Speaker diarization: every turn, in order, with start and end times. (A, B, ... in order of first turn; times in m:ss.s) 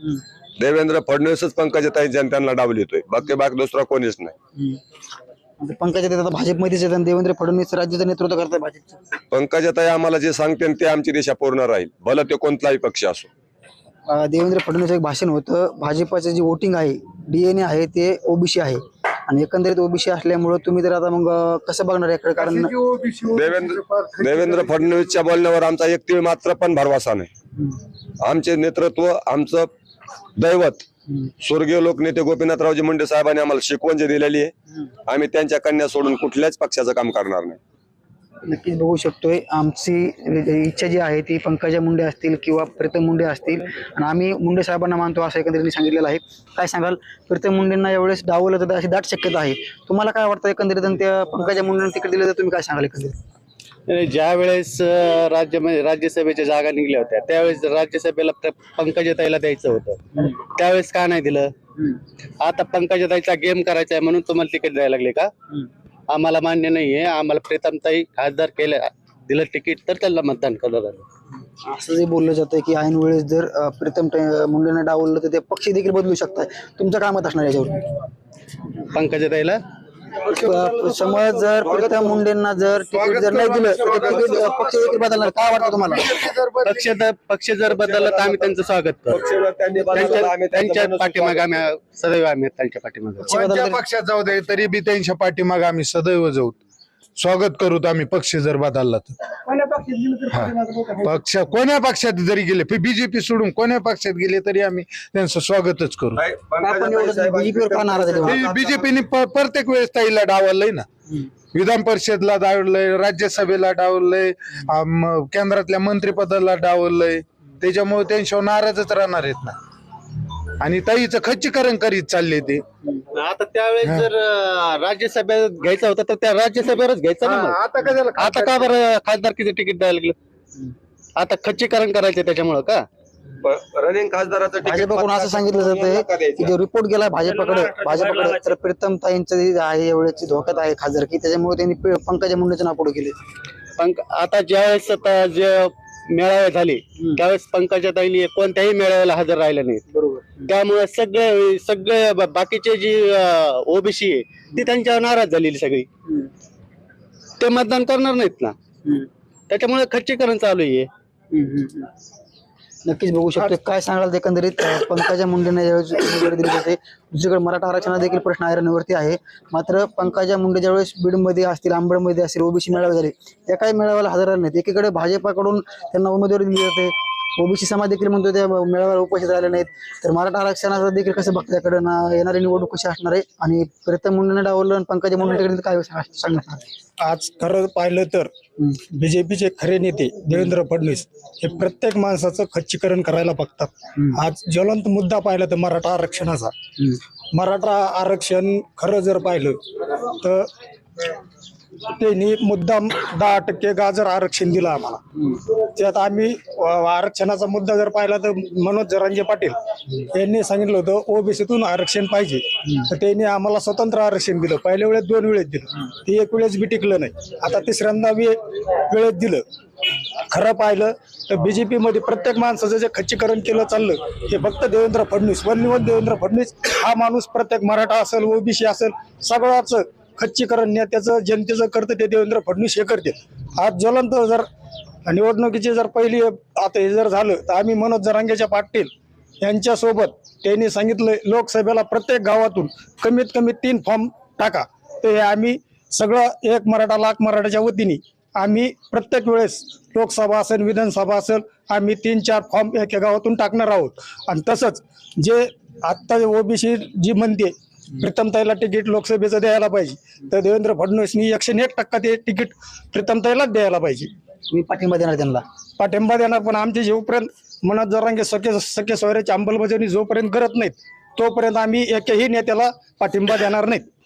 0:00.6-0:04.4 A
0:05.6-0:09.0 B
0:09.3-0:13.3 A
0:14.1-0:22.7 B
0:22.4-0:25.1 C
0:23.3-0:27.3 A
0:28.2-0:29.7 A
0:30.4-0:30.8 A
0:31.4-0:34.5 A
0:35.1-0:37.6 A
0:38.5-0:53.2 B
0:53.9-1:11.0 D
1:11.6-1:17.9 B
1:18.9-1:19.6 D
1:20.3-1:26.2 B
1:21.7-1:22.2 A
1:23.0-1:26.9 C
1:23.4-1:24.4 A
1:26.6-1:29.2 D
1:27.7-1:28.6 A
1:29.1-1:31.6 A
1:29.9-1:33.3 D
1:33.3-1:36.6 C
1:33.3-1:33.8 B
1:37.2-1:39.2 C
1:39.5-1:41.0 E
1:40.3-1:46.2 C
1:46.2-1:49.0 A
1:46.6-1:48.5 B
1:48.2-1:50.8 C
1:51.5-1:59.6 C
2:00.6-2:02.6 C
2:03.0-2:10.2 D
2:07.2-2:08.7 C
2:11.2-2:12.8 D
2:13.4-2:16.5 A
2:14.6-2:23.2 B
2:23.8-2:29.9 D
2:30.4-2:36.2 D
2:37.4-2:41.9 D
2:42.9-3:06.7 B
3:07.0-3:08.3 E
3:09.0-3:16.5 E
3:17.3-3:19.5 E
3:22.0-3:25.0 E
3:25.8-3:29.5 E
3:30.1-3:38.4 E
3:38.9-3:39.4 E
3:40.3-3:54.4 E
3:55.1-3:58.9 E
3:59.4-4:17.5 E
4:18.0-4:24.1 E
4:24.5-4:25.4 B
4:25.8-4:33.8 E